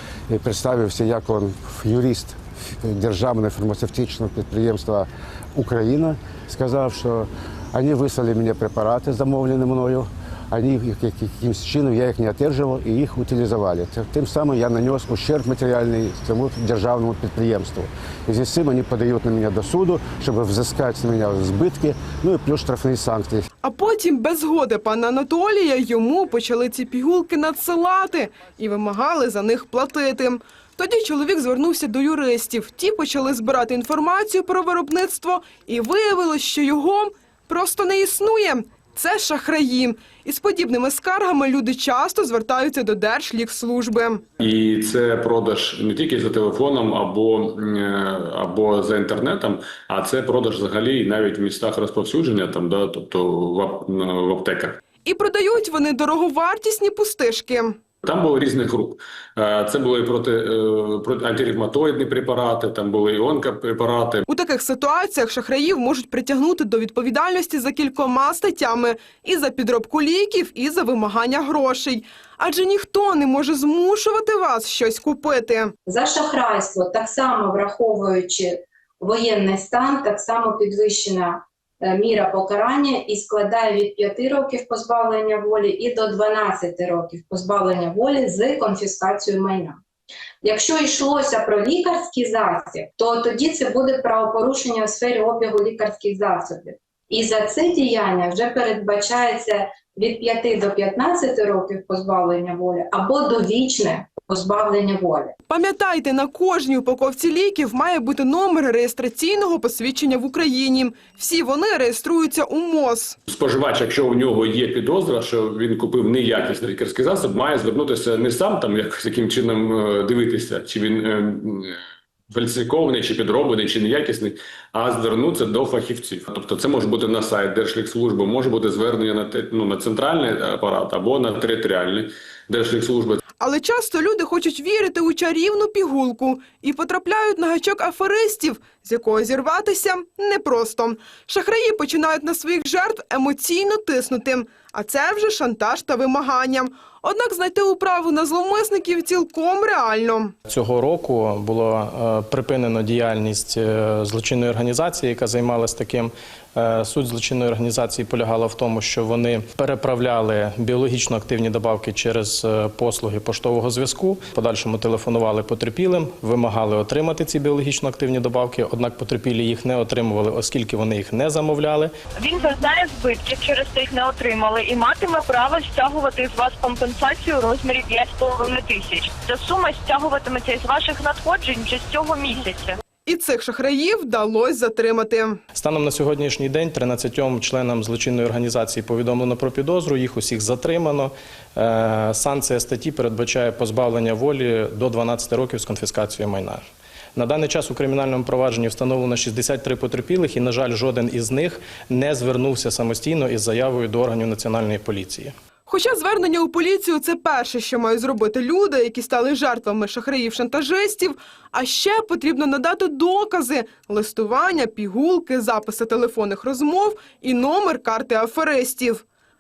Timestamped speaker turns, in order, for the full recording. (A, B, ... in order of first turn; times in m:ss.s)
0:00.3-0:23.5 A
0:23.6-0:44.2 B
0:44.4-0:54.8 C
0:55.0-0:57.8 B
0:58.0-1:04.3 C
1:04.3-1:15.7 B
1:15.9-1:29.8 D
1:30.4-1:45.4 D
1:45.5-1:53.2 B
1:53.3-2:01.8 C
2:02.3-2:13.2 C
2:13.4-2:30.3 B
2:30.5-2:51.9 E
2:52.2-3:02.8 F
3:03.1-3:05.4 B
3:05.5-3:16.6 E
3:17.2-3:25.3 E
3:25.7-3:39.0 B